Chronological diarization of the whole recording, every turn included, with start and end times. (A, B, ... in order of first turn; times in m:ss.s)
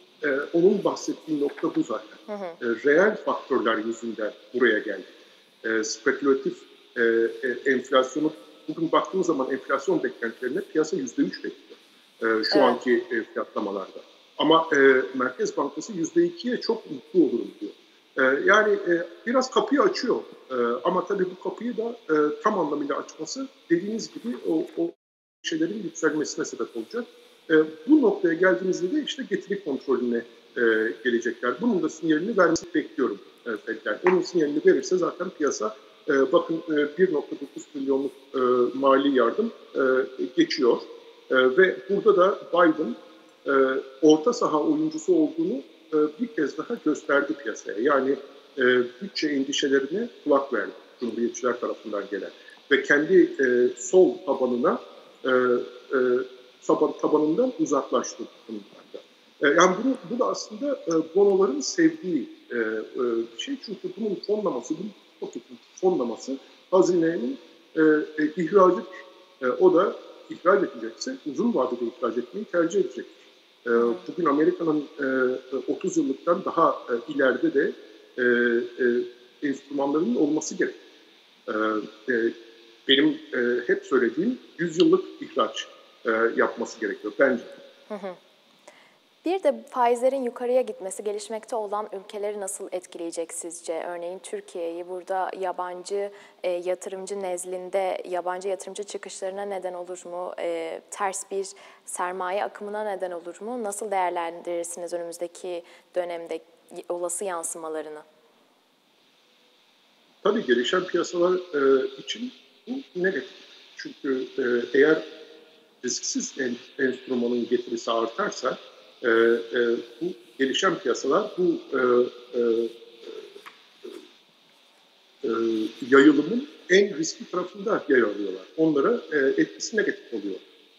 0:00.2-0:05.1 A
0:02.3-0:02.6 B
0:05.6-1:20.8 A
0:12.5-0:12.8 B
1:21.5-1:22.4 A
1:22.9-1:27.5 A
1:27.9-1:28.2 B
1:29.2-1:48.0 B
1:50.2-1:55.0 A
1:55.8-2:03.2 A
2:05.2-2:10.4 A